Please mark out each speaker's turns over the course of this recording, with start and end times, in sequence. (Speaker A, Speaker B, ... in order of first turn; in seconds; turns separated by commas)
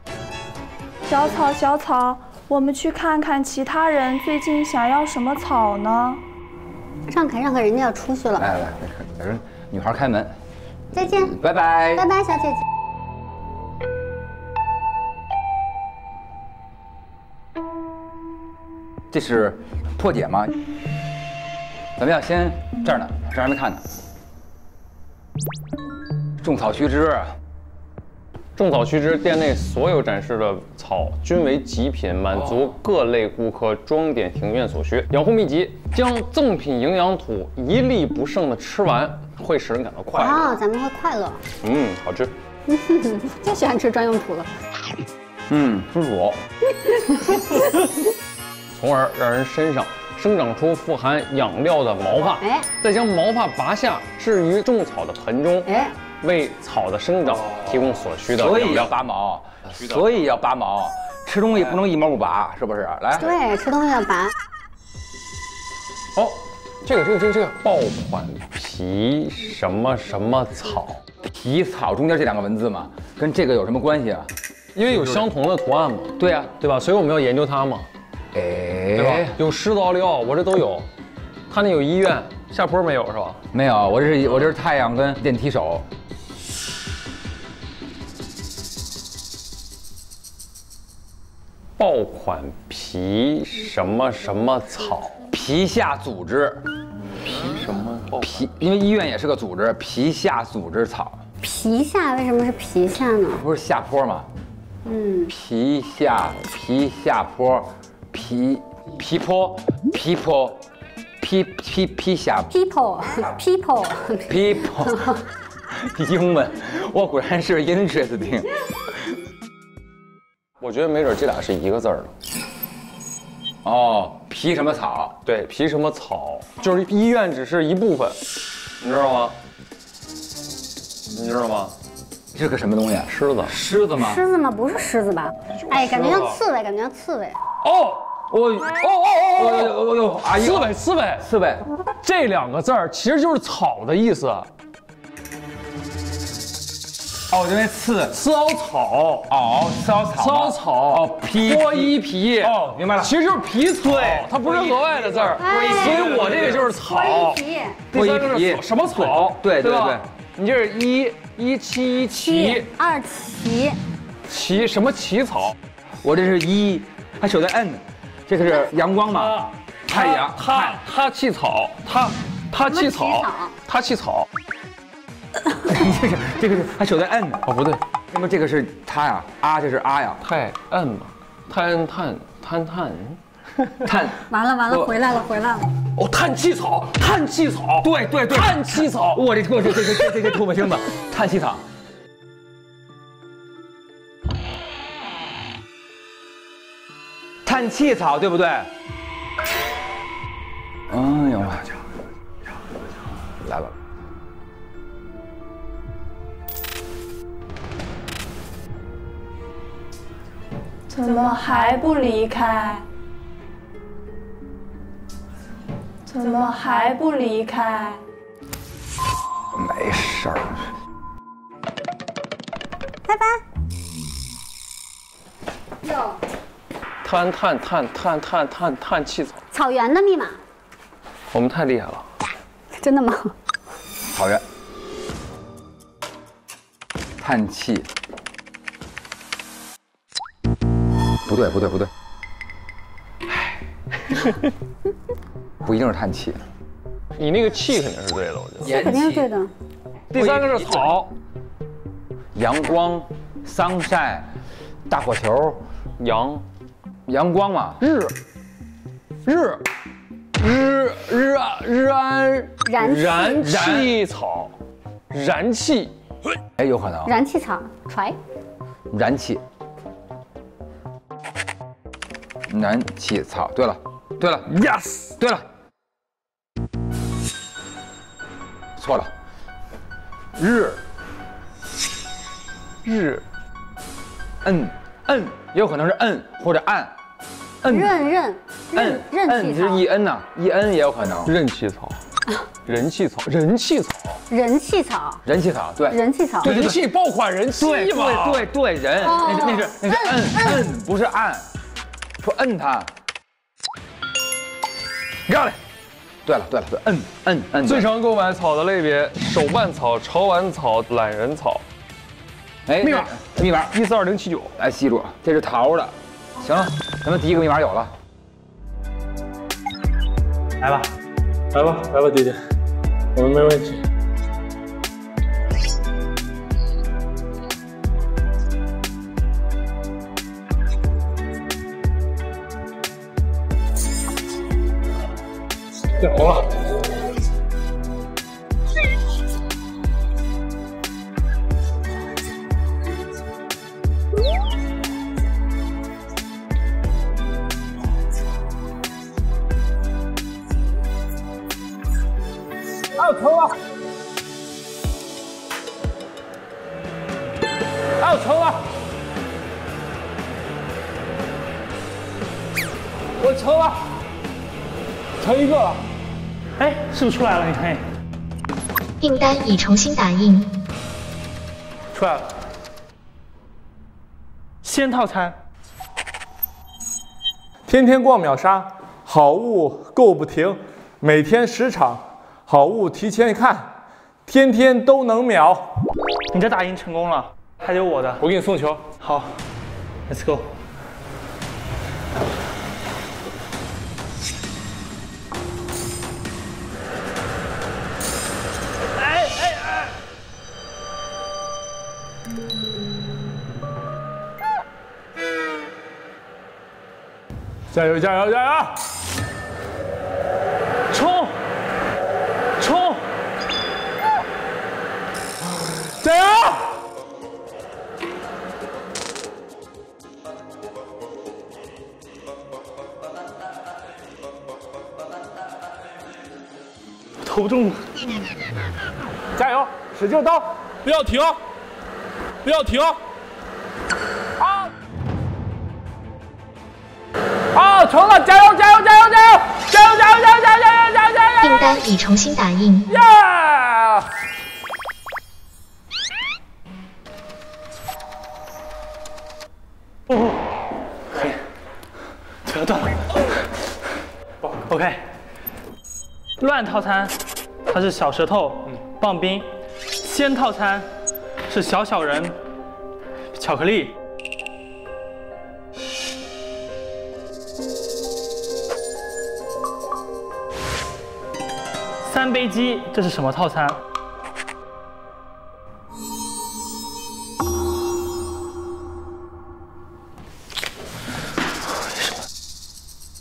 Speaker A: 1.1-6.2, Speaker B: 7.1-8.6, Speaker C: 8.4-10.3, Speaker B: 10.9-11.4, Speaker C: 11.2-12.1, Speaker B: 11.9-12.6, Speaker C: 19.1-20.5, Speaker C: 22.0-23.8, Speaker C: 26.4-27.3, Speaker D: 28.6-40.6, Speaker B: 40.1-41.4, Speaker D: 41.6-42.3, Speaker B: 42.7-44.5, Speaker C: 45.5-45.8, Speaker D: 45.5-46.4, Speaker B: 46.7-47.9, Speaker D: 48.8-55.7, Speaker B: 52.4-52.7, Speaker B: 55.7-55.9, Speaker D: 56.2-58.9, Speaker C: 58.4-63.3, Speaker B: 63.2-64.3, Speaker D: 66.2-71.0, Speaker C: 71.4-74.3, Speaker D: 74.8-77.9, Speaker C: 76.2-76.5, Speaker C: 78.3-79.4, Speaker D: 79.0-80.9, Speaker D: 81.5-83.4, Speaker C: 83.5-85.9, Speaker D: 91.8-95.2, Speaker C: 95.3-96.6, Speaker D: 97.2-98.3, Speaker C: 98.2-101.2, Speaker B: 101.4-103.4, Speaker C: 103.3-104.3, Speaker B: 104.8-105.3, Speaker C: 105.3-110.6, Speaker C: 111.2-112.5, Speaker B: 112.5-115.2, Speaker C: 114.3-115.1, Speaker C: 115.7-118.5, Speaker D: 120.6-122.1, Speaker C: 123.6-125.2, Speaker D: 125.2-128.2, Speaker D: 128.8-129.3, Speaker D: 131.1-131.7, Speaker C: 132.3-134.2, Speaker D: 133.1-133.6, Speaker B: 133.9-137.4, Speaker D: 135.7-136.4, Speaker D: 137.6-138.1, Speaker C: 138.3-141.6, Speaker D: 138.7-139.8, Speaker D: 140.3-141.2, Speaker D: 142.0-144.5, Speaker C: 147.3-148.2, Speaker D: 148.1-149.3, Speaker C: 149.3-153.1, Speaker D: 150.2-157.4, Speaker C: 153.9-156.6, Speaker B: 155.4-156.2, Speaker B: 156.7-157.8, Speaker C: 157.9-160.1, Speaker D: 157.9-162.7, Speaker B: 162.2-163.8, Speaker D: 164.3-165.6, Speaker C: 166.0-170.8, Speaker D: 169.9-174.3, Speaker B: 172.6-173.5, Speaker C: 175.7-177.4, Speaker D: 177.5-177.8, Speaker C: 178.1-180.2, Speaker D: 180.2-183.2, Speaker C: 183.8-184.2, Speaker B: 184.3-185.7, Speaker D: 186.0-189.2, Speaker C: 187.8-191.6, Speaker D: 189.8-190.1, Speaker C: 197.4-198.7, Speaker C: 200.9-201.7, Speaker C: 203.3-203.7, Speaker A: 210.9-212.8, Speaker A: 216.1-218.0, Speaker C: 219.5-220.7, Speaker B: 223.1-223.4, Speaker B: 225.8-226.2, Speaker D: 227.0-229.4, Speaker B: 229.5-230.4, Speaker D: 231.3-232.1, Speaker B: 232.8-233.3, Speaker C: 234.1-234.4, Speaker C: 237.2-237.9, Speaker C: 241.2-241.9, Speaker C: 245.6-246.4, Speaker D: 247.2-248.9, Speaker C: 248.6-249.3, Speaker B: 248.7-249.5, Speaker C: 250.1-250.8, Speaker D: 250.1-251.1, Speaker C: 252.3-254.3, Speaker C: 254.9-255.6, Speaker D: 256.0-256.4, Speaker C: 257.1-257.9, Speaker D: 257.8-258.1, Speaker D: 259.3-259.6, Speaker D: 260.4-264.6, Speaker B: 262.7-263.5, Speaker C: 263.4-263.9, Speaker D: 265.1-265.9, Speaker C: 266.6-267.1, Speaker B: 267.1-268.2, Speaker C: 268.9-269.4, Speaker C: 272.5-274.6, Speaker C: 275.2-275.4, Speaker C: 278.8-279.1, Speaker C: 280.4-280.8, Speaker D: 282.9-283.2, Speaker C: 284.4-286.9, Speaker C: 287.6-287.9, Speaker B: 287.6-289.8, Speaker C: 288.7-291.3, Speaker D: 291.3-292.0, Speaker D: 292.7-294.2, Speaker B: 294.3-295.2, Speaker C: 295.2-296.8, Speaker B: 295.9-296.5, Speaker D: 296.4-298.5, Speaker C: 297.6-301.5, Speaker B: 299.0-300.7, Speaker C: 302.2-302.9, Speaker C: 305.3-305.6, Speaker C: 306.2-307.9, Speaker D: 307.6-311.6, Speaker C: 312.7-313.7, Speaker D: 312.8-314.5, Speaker C: 314.6-317.9, Speaker E: 320.6-320.9, Speaker F: 321.5-322.4, Speaker F: 323.1-323.8, Speaker F: 336.0-336.5, Speaker F: 352.9-353.5, Speaker F: 358.0-358.6, Speaker F: 363.2-363.8, Speaker F: 365.2-365.8, Speaker E: 366.6-367.8, Speaker G: 369.0-370.6, Speaker E: 371.9-372.3, Speaker E: 374.6-375.4, Speaker F: 377.7-383.7, Speaker F: 384.3-385.7, Speaker E: 386.3-388.2, Speaker F: 388.2-388.9, Speaker E: 389.0-389.3, Speaker E: 390.1-390.5, Speaker E: 399.0-399.9, Speaker F: 407.7-408.8, Speaker E: 410.9-411.4, Speaker E: 412.6-413.1, Speaker F: 416.0-416.8, Speaker E: 427.2-427.8, Speaker F: 429.4-431.4, Speaker F: 432.4-433.0, Speaker F: 434.4-434.7, Speaker F: 437.5-441.8, Speaker G: 441.4-442.9, Speaker F: 442.9-444.1, Speaker E: 452.5-453.1, Speaker E: 454.6-455.0, Speaker E: 456.4-460.9, Speaker E: 461.5-462.4, Speaker E: 463.3-464.0, Speaker E: 472.0-473.8, Speaker E: 481.8-482.2